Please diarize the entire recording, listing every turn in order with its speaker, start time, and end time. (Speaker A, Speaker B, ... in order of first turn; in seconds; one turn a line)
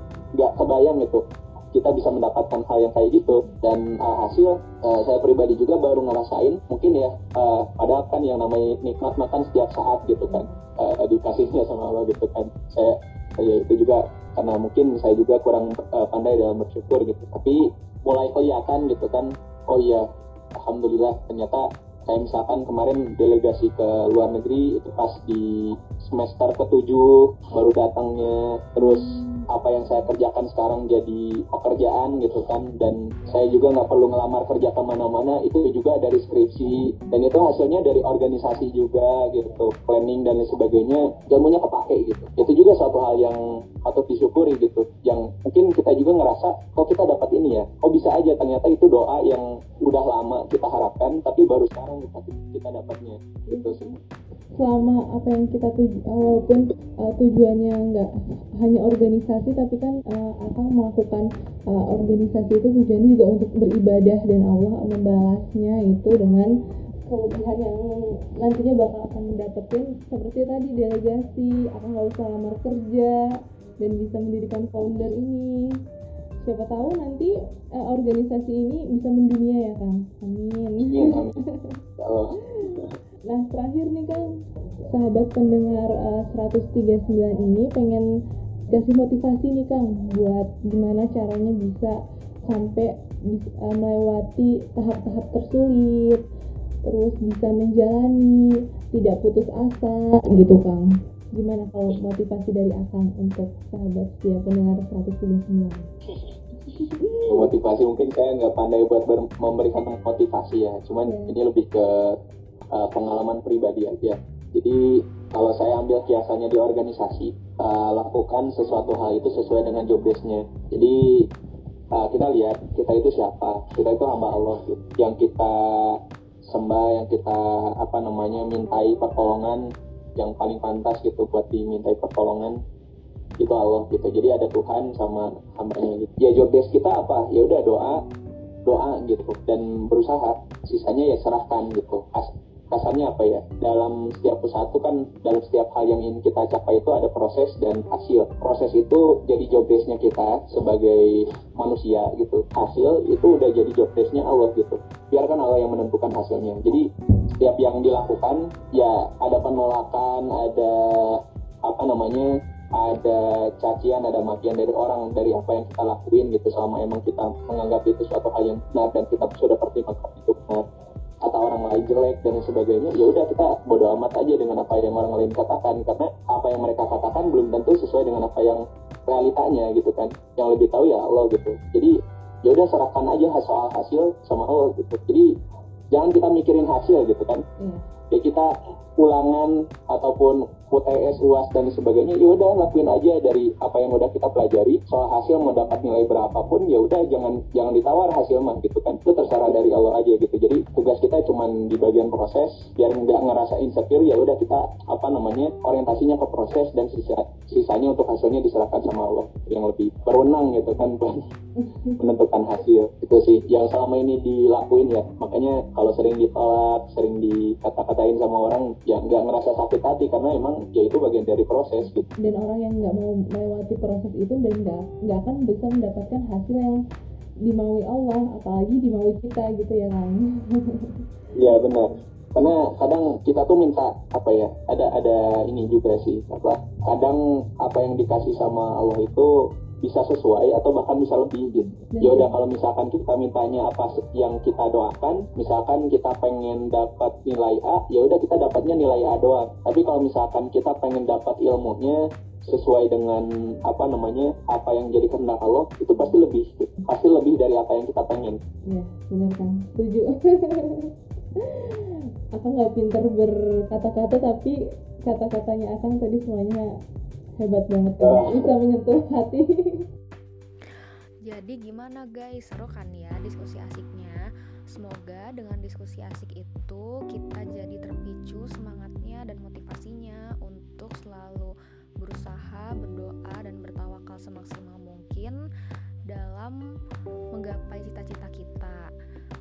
Speaker A: 0.4-53.9
Speaker B: 3.3-3.6
Speaker B: 10.0-10.6
Speaker B: 28.8-29.5
Speaker B: 53.5-54.0
Speaker B: 54.6-66.5
Speaker B: 67.1-75.8
Speaker B: 76.4-81.8
Speaker A: 80.8-81.4
Speaker A: 82.0-83.0
Speaker B: 82.5-84.3
Speaker B: 84.9-88.1
Speaker B: 88.7-96.2
Speaker B: 96.8-105.9
Speaker B: 106.7-107.5
Speaker A: 107.2-112.2
Speaker B: 111.0-111.3
Speaker A: 112.7-121.3
Speaker A: 121.9-132.6
Speaker A: 133.4-138.1
Speaker A: 138.7-156.9
Speaker A: 157.4-170.7
Speaker A: 171.2-185.3
Speaker A: 185.9-187.4
Speaker B: 187.6-187.8
Speaker A: 188.1-211.2
Speaker B: 211.6-212.0
Speaker A: 212.0-222.1
Speaker B: 222.2-226.8
Speaker B: 227.4-231.0
Speaker A: 231.3-258.4
Speaker B: 241.8-242.4
Speaker B: 258.7-266.7
Speaker B: 267.4-269.9
Speaker A: 268.0-268.5
Speaker C: 271.2-285.4
Speaker C: 286.1-286.6
Speaker C: 287.3-288.9